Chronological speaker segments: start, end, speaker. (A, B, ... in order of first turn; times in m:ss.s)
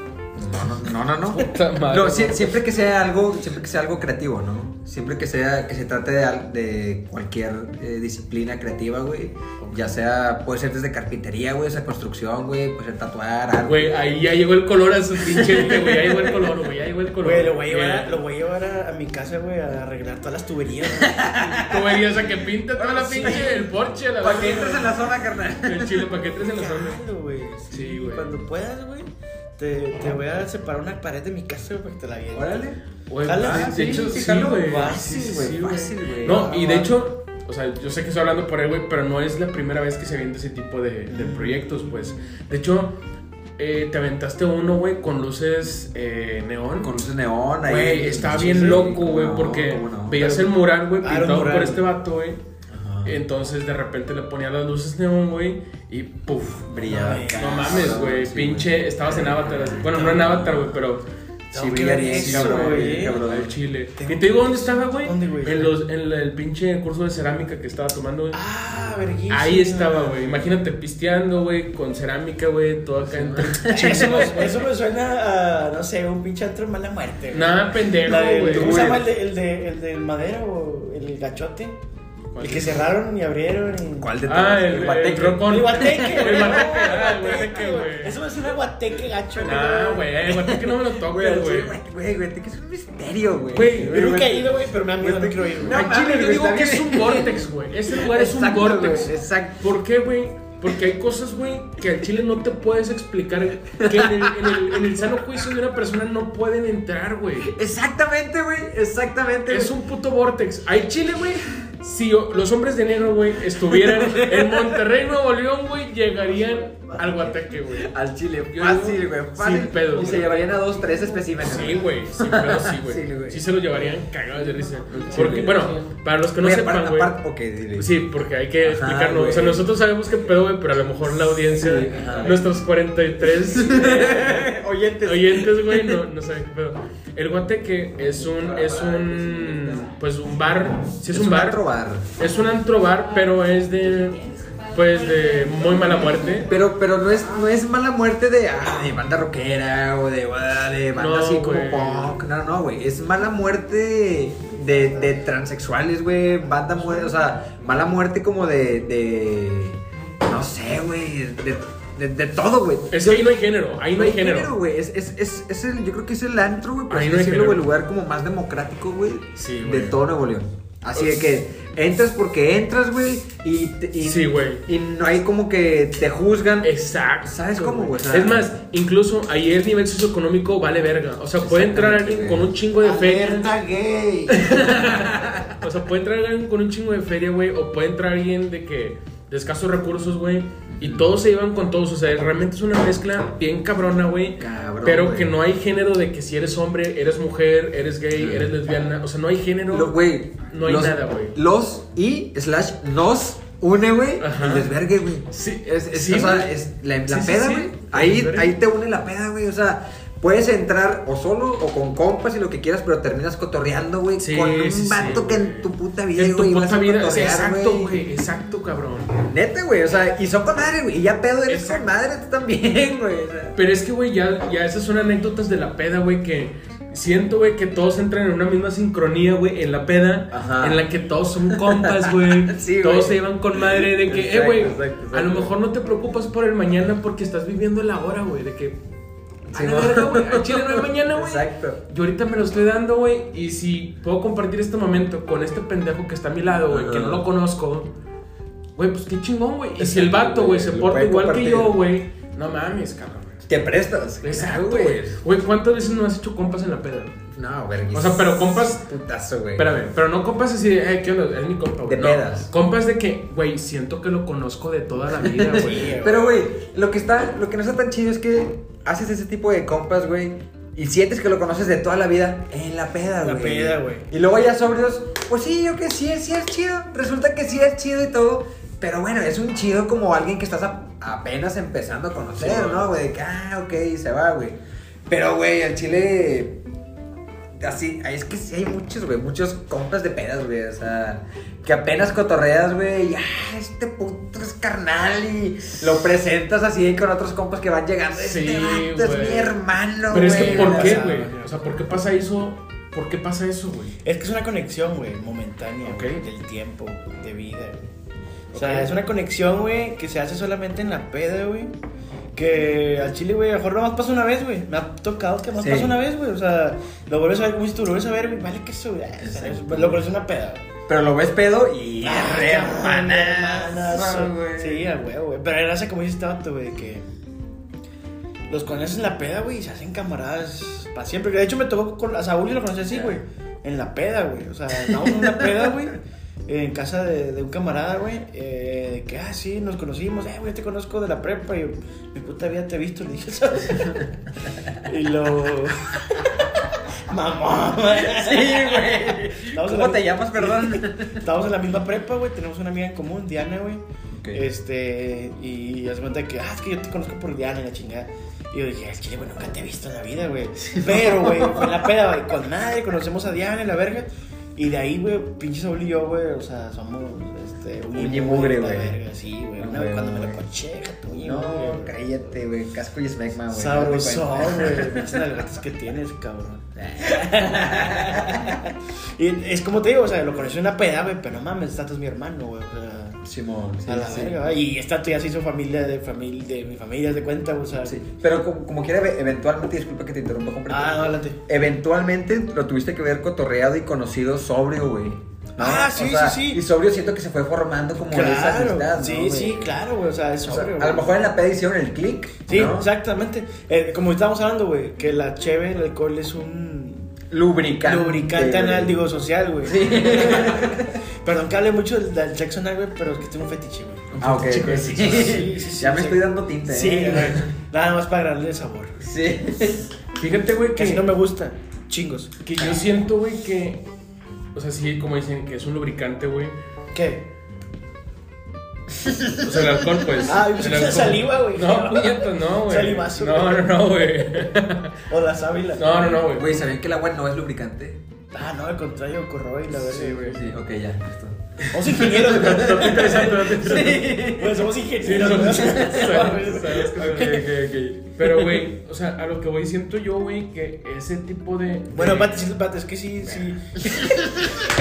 0:00.4-0:14.1 A
0:01.3-0:02.6 B
0:09.6-0:09.9 B
0:13.6-0:18.2 B
0:15.2-0:16.2 A
0:17.2-0:21.7 C
0:21.0-0:22.1 A
0:21.6-0:27.0 B
0:22.8-0:23.7 A
0:23.0-0:23.6 C
0:24.2-0:26.1 A
0:26.4-0:32.6 C
0:27.7-0:28.4 B
0:32.3-0:32.8 A
0:33.1-0:43.0 B
0:33.2-0:35.3 C
0:33.3-0:36.9 A
0:36.3-0:36.9 C
0:41.1-0:42.3 C
0:43.6-0:47.0 B
0:46.8-0:50.4 A
0:47.6-0:52.4 B
0:50.2-0:50.5 C
0:51.0-0:51.8 C
0:52.7-0:53.2 A
0:53.0-1:01.0 B
0:56.7-1:00.8 A
0:56.8-0:58.0 C
1:01.5-1:03.2 C
1:01.5-1:03.6 A
1:01.7-1:08.4 B
1:04.0-1:05.7 C
1:08.3-1:10.4 C
1:09.3-1:14.7 B
1:13.1-1:14.4 A
1:13.6-1:21.8 C
1:17.3-1:18.9 B
1:18.5-1:19.0 A
1:22.3-1:22.9 B
1:22.4-1:24.2 C
1:24.0-1:27.2 A
1:24.3-1:28.2 B
1:25.4-1:30.1 C
1:29.4-1:31.8 B
1:30.2-1:34.4 A
1:33.5-1:34.3 B
1:33.8-1:35.9 C
1:35.0-1:39.7 A
1:35.7-1:47.6 B
1:43.8-1:44.8 A
1:47.4-1:49.8 A
1:49.5-1:57.9 B
1:53.7-1:54.8 A
1:57.0-2:03.5 A
1:58.5-2:00.6 B
2:01.4-2:07.2 B
2:04.9-2:05.8 A
2:06.4-2:08.0 A
2:07.8-2:14.5 B
2:08.6-2:09.7 A
2:11.5-2:12.5 A
2:13.5-2:16.0 A
2:15.0-2:21.6 B
2:18.3-2:19.7 A
2:21.1-2:22.1 A
2:22.2-2:26.5 B
2:26.4-2:43.4 A
2:31.0-2:32.2 B
2:42.9-2:44.5 B
2:43.9-2:58.5 A
2:46.9-2:47.7 B
2:49.4-2:50.0 B
2:51.0-2:51.4 B
2:54.0-2:54.6 B
2:56.6-3:03.5 B
3:01.4-3:02.5 A
3:02.8-3:04.9 C
3:04.3-3:05.6 A
3:04.4-3:21.4 B
3:10.7-3:11.1 A
3:14.4-3:15.4 A
3:18.2-3:18.5 A
3:19.7-3:38.0 A
3:24.2-3:24.7 B
3:25.3-3:26.5 B
3:27.1-3:28.6 B
3:34.2-3:39.2 B
3:39.3-3:43.6 A
3:41.5-3:41.9 B
3:43.6-3:58.8 B
3:50.3-3:50.8 A
3:51.5-3:55.6 A
3:59.5-4:07.9 B
3:59.5-4:01.8 A
4:06.7-4:07.2 A
4:08.8-4:13.5 B
4:09.8-4:11.8 A
4:13.5-4:15.2 A
4:14.2-4:17.2 B
4:17.3-4:19.8 A
4:17.9-4:18.9 B
4:19.6-4:26.0 B
4:21.9-4:22.5 A
4:25.2-4:46.6 A
4:25.6-4:26.4 C
4:33.2-4:34.1 C
4:42.4-4:42.8 C
4:47.6-5:01.1 A
4:58.2-5:04.0 B
5:00.1-5:01.6 C
5:04.0-5:07.9 C
5:05.8-5:06.2 B
5:08.5-5:09.0 B
5:08.5-5:11.7 C
5:12.4-5:20.7 C
5:15.6-5:16.0 A
5:19.2-5:20.0 A
5:20.9-5:24.9 A
5:22.0-5:27.1 C
5:28.5-5:44.1 C
5:32.9-5:33.2 A
5:34.9-5:35.7 A
5:43.7-5:44.1 A
5:44.7-6:12.0 C
5:47.9-5:51.2 A
5:54.2-5:54.4 A
6:00.7-6:01.8 A
6:08.0-6:09.0 A
6:09.6-6:10.4 A
6:11.1-6:15.2 A
6:13.5-6:23.2 C
6:16.8-6:18.6 A
6:23.2-6:24.4 A
6:23.9-6:28.1 C
6:27.8-6:39.8 A
6:30.7-6:31.4 C
6:35.6-6:36.6 C
6:38.1-6:41.2 C
6:40.5-6:42.9 A
6:42.5-6:47.1 C
6:47.3-6:49.0 A
6:47.8-6:54.2 C
6:49.6-6:51.0 A
6:54.1-6:55.5 B
6:54.2-6:57.5 A
6:54.9-6:59.0 C
6:59.0-6:59.9 A
7:00.2-7:01.1 B
7:00.8-7:02.8 C
7:02.4-7:03.9 B
7:04.6-7:06.6 B
7:06.9-7:07.3 C
7:09.0-7:09.7 A
7:09.4-7:15.0 B
7:10.2-7:13.7 C
7:15.1-7:15.9 C
7:15.8-7:16.7 B
7:15.9-7:18.0 A
7:18.3-7:20.5 C
7:19.8-7:20.5 B
7:20.3-7:24.7 A
7:21.7-7:27.4 C
7:22.1-7:24.2 B
7:25.0-7:32.5 B
7:25.4-7:26.3 A
7:27.0-7:28.4 A
7:31.9-7:34.7 C
7:34.0-7:34.3 A